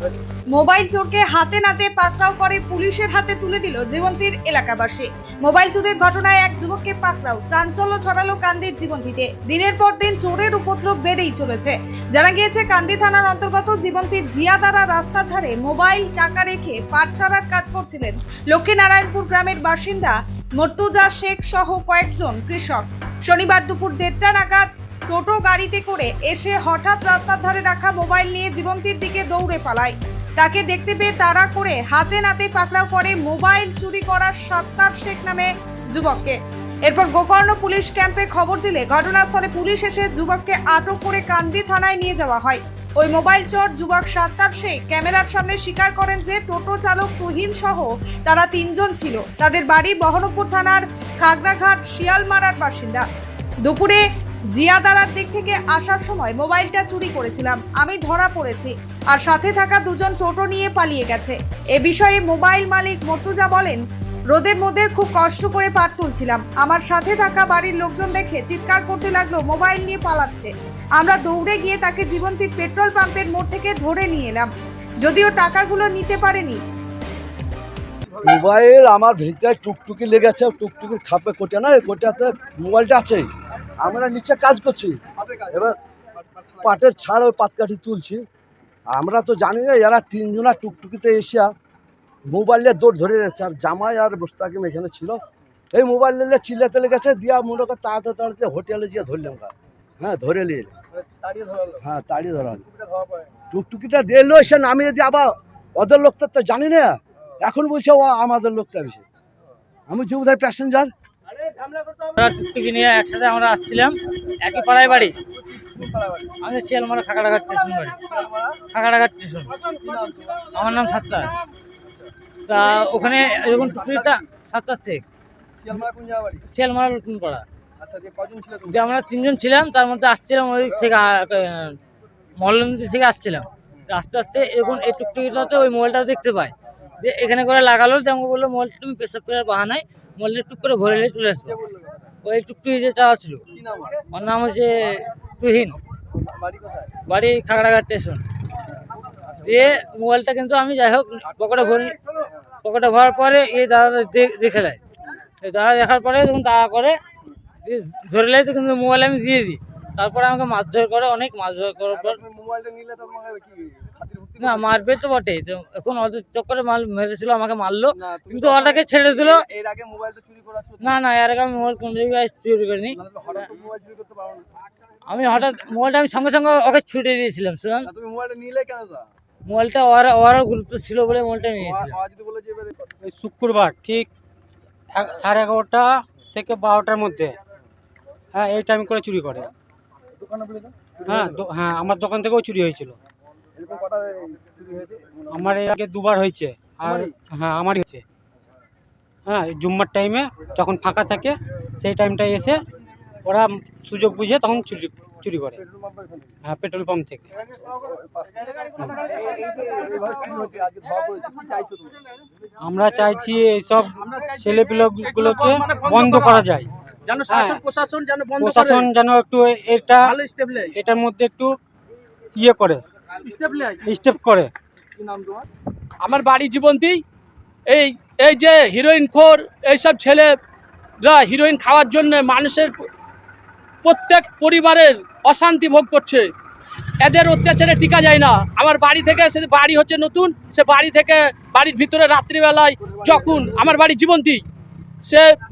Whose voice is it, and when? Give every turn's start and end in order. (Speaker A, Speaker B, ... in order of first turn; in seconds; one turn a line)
Speaker A: 0.5-53.0
Speaker A: 53.6-74.5
Speaker A: 75.0-76.6
Speaker B: 78.2-85.0
Speaker B: 85.5-85.8
Speaker B: 86.6-88.2
Speaker B: 88.9-91.5
Speaker B: 92.3-95.2
Speaker B: 95.7-100.7
Speaker B: 101.8-102.6
Speaker B: 103.5-109.0
Speaker B: 109.9-110.9
Speaker C: 112.2-115.2
Speaker C: 116.4-118.0
Speaker C: 118.5-119.5
Speaker D: 119.9-120.3
Speaker C: 120.4-121.3
Speaker C: 122.5-125.0
Speaker C: 126.5-127.4
Speaker C: 128.6-131.8
Speaker C: 132.4-141.6
Speaker C: 142.2-143.4
Speaker C: 144.1-145.8
Speaker C: 147.1-148.2
Speaker C: 149.4-151.9
Speaker C: 152.6-154.8
Speaker C: 155.4-157.0
Speaker C: 157.6-162.2
Speaker D: 162.6-163.3
Speaker C: 164.4-169.5
Speaker C: 170.8-173.0
Speaker D: 173.6-174.3
Speaker C: 175.1-177.9
Speaker D: 178.0-178.8
Speaker C: 179.4-182.0
Speaker E: 183.0-184.1
Speaker E: 184.9-187.3
Speaker E: 188.3-189.5
Speaker E: 191.1-192.9
Speaker E: 195.3-198.0
Speaker E: 199.2-202.6
Speaker E: 203.2-205.6
Speaker E: 206.4-207.2
Speaker E: 212.6-216.7
Speaker F: 213.9-216.5
Speaker F: 217.1-218.9
Speaker E: 217.3-217.6
Speaker E: 218.4-220.1
Speaker F: 220.1-220.7
Speaker E: 220.7-221.5
Speaker E: 222.3-222.8
Speaker F: 223.2-223.8
Speaker E: 223.8-224.5
Speaker F: 226.0-227.0
Speaker F: 227.7-230.3
Speaker F: 231.0-232.8
Speaker F: 233.8-236.3
Speaker F: 237.0-244.4